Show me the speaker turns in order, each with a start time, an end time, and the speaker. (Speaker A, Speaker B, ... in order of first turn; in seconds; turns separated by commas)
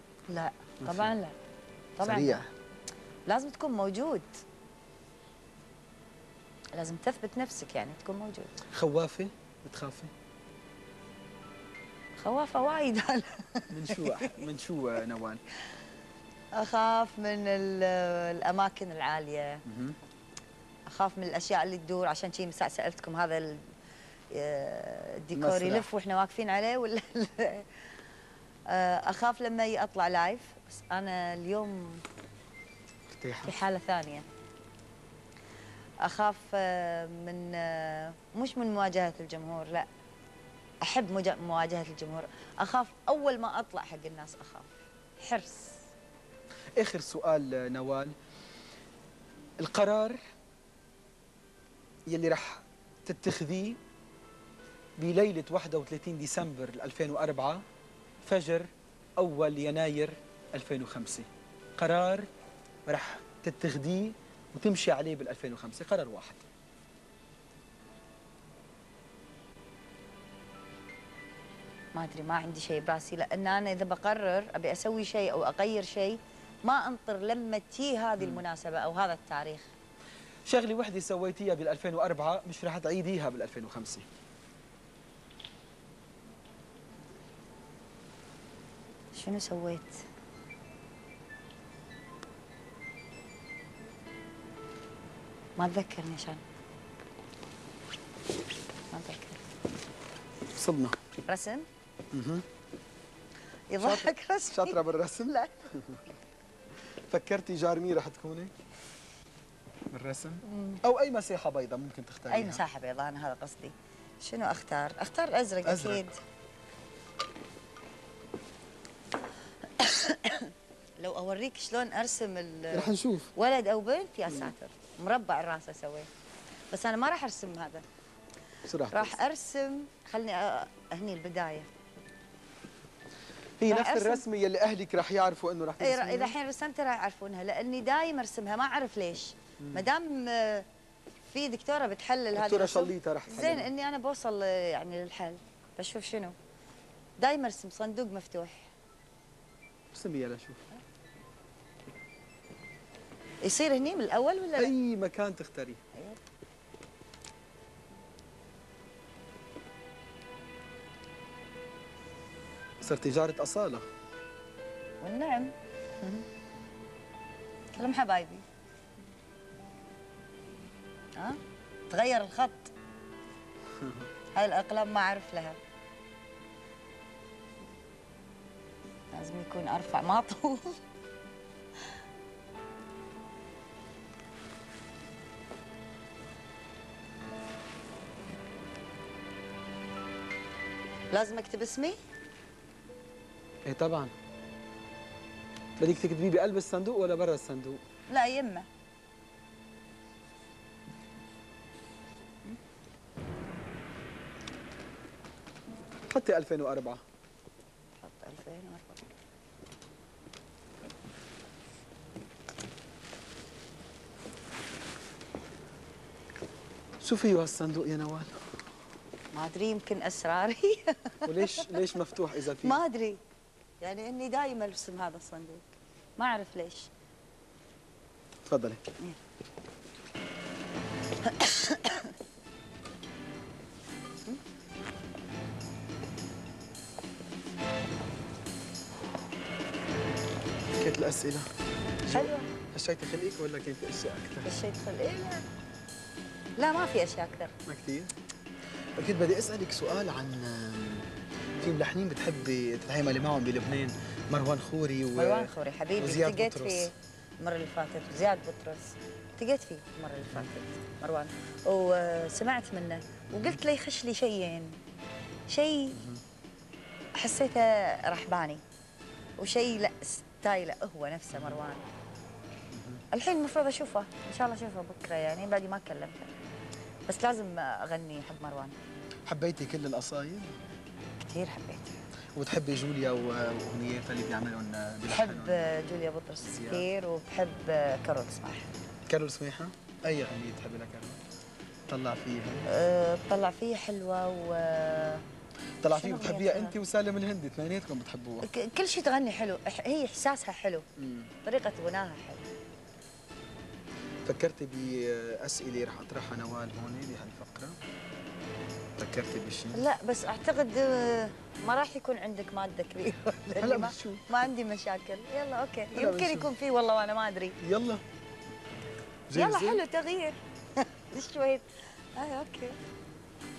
Speaker A: 0.3-1.4, Speaker B: 0.8-1.1, Speaker A: 2.0-2.4, Speaker B: 2.0-2.5, Speaker A: 3.3-4.4, Speaker A: 6.7-8.6, Speaker B: 8.7-10.1, Speaker A: 12.2-14.4, Speaker B: 13.7-15.4, Speaker A: 16.5-19.6, Speaker B: 19.7-20.0, Speaker A: 20.9-23.6, Speaker A: 24.3-27.9, Speaker B: 25.3-25.9, Speaker A: 28.7-32.0, Speaker B: 33.1-33.5, Speaker A: 33.4-34.3, Speaker A: 36.0-39.9, Speaker A: 40.8-45.8, Speaker B: 46.8-48.1, Speaker B: 49.6-50.2, Speaker B: 52.1-53.8, Speaker B: 55.0-57.6, Speaker B: 58.2-62.3, Speaker B: 62.9-66.5, Speaker A: 71.9-79.7, Speaker B: 80.5-84.1, Speaker A: 89.1-90.0, Speaker A: 95.6-96.4, Speaker A: 98.9-99.4, Speaker B: 100.5-101.0, Speaker A: 101.3-101.7, Speaker B: 102.1-102.5, Speaker A: 103.7-105.5, Speaker B: 103.8-106.0, Speaker B: 107.1-108.5, Speaker B: 109.9-112.6, Speaker A: 110.5-110.8, Speaker A: 112.3-116.2, Speaker B: 115.6-116.0, Speaker A: 119.8-126.1, Speaker B: 122.7-123.3, Speaker A: 126.7-127.9, Speaker B: 128.6-129.2, Speaker A: 128.9-131.7, Speaker B: 133.6-136.3, Speaker A: 133.7-134.2, Speaker A: 135.8-140.7, Speaker B: 139.6-139.9, Speaker A: 141.3-146.4, Speaker B: 142.3-143.7, Speaker A: 147.2-148.7, Speaker B: 149.9-150.6, Speaker A: 153.4-154.7, Speaker B: 154.6-155.8, Speaker A: 155.9-156.2, Speaker B: 162.8-163.9, Speaker A: 165.0-166.3, Speaker A: 167.7-168.4, Speaker A: 171.9-172.7, Speaker B: 173.8-174.1, Speaker A: 174.3-175.6, Speaker A: 179.1-180.8, Speaker A: 191.1-192.0, Speaker B: 193.7-194.1, Speaker B: 195.8-197.8, Speaker A: 198.1-198.7, Speaker B: 206.1-207.0, Speaker A: 208.0-209.1, Speaker B: 217.0-218.3, Speaker A: 219.3-221.8, Speaker B: 221.3-222.8, Speaker A: 222.5-223.2, Speaker A: 223.8-225.7, Speaker A: 226.2-226.9, Speaker B: 228.5-228.8, Speaker A: 231.2-232.1, Speaker B: 240.8-241.5, Speaker B: 242.1-244.5, Speaker A: 242.1-242.5, Speaker A: 244.4-245.4, Speaker A: 246.6-247.5, Speaker B: 247.7-248.1, Speaker B: 249.0-256.9, Speaker A: 255.1-264.8, Speaker B: 263.3-263.6, Speaker A: 265.5-266.0, Speaker B: 265.9-266.2, Speaker A: 267.2-268.6, Speaker A: 269.4-271.9, Speaker B: 271.3-271.6, Speaker B: 272.7-273.0, Speaker A: 273.1-276.3, Speaker A: 277.1-278.8, Speaker B: 279.3-280.6, Speaker A: 281.2-282.0, Speaker B: 282.4-285.7, Speaker A: 285.1-288.8, Speaker B: 286.4-286.9, Speaker B: 289.1-291.2, Speaker B: 291.9-292.7, Speaker A: 292.7-295.2, Speaker B: 295.8-298.5, Speaker A: 295.9-296.8, Speaker A: 298.4-300.9, Speaker B: 301.0-301.3, Speaker A: 301.4-302.5, Speaker B: 304.2-307.8, Speaker B: 309.0-309.9, Speaker A: 309.7-317.6, Speaker B: 313.6-314.5, Speaker B: 315.9-316.5, Speaker B: 317.6-318.0, Speaker B: 319.3-319.8, Speaker A: 319.3-322.8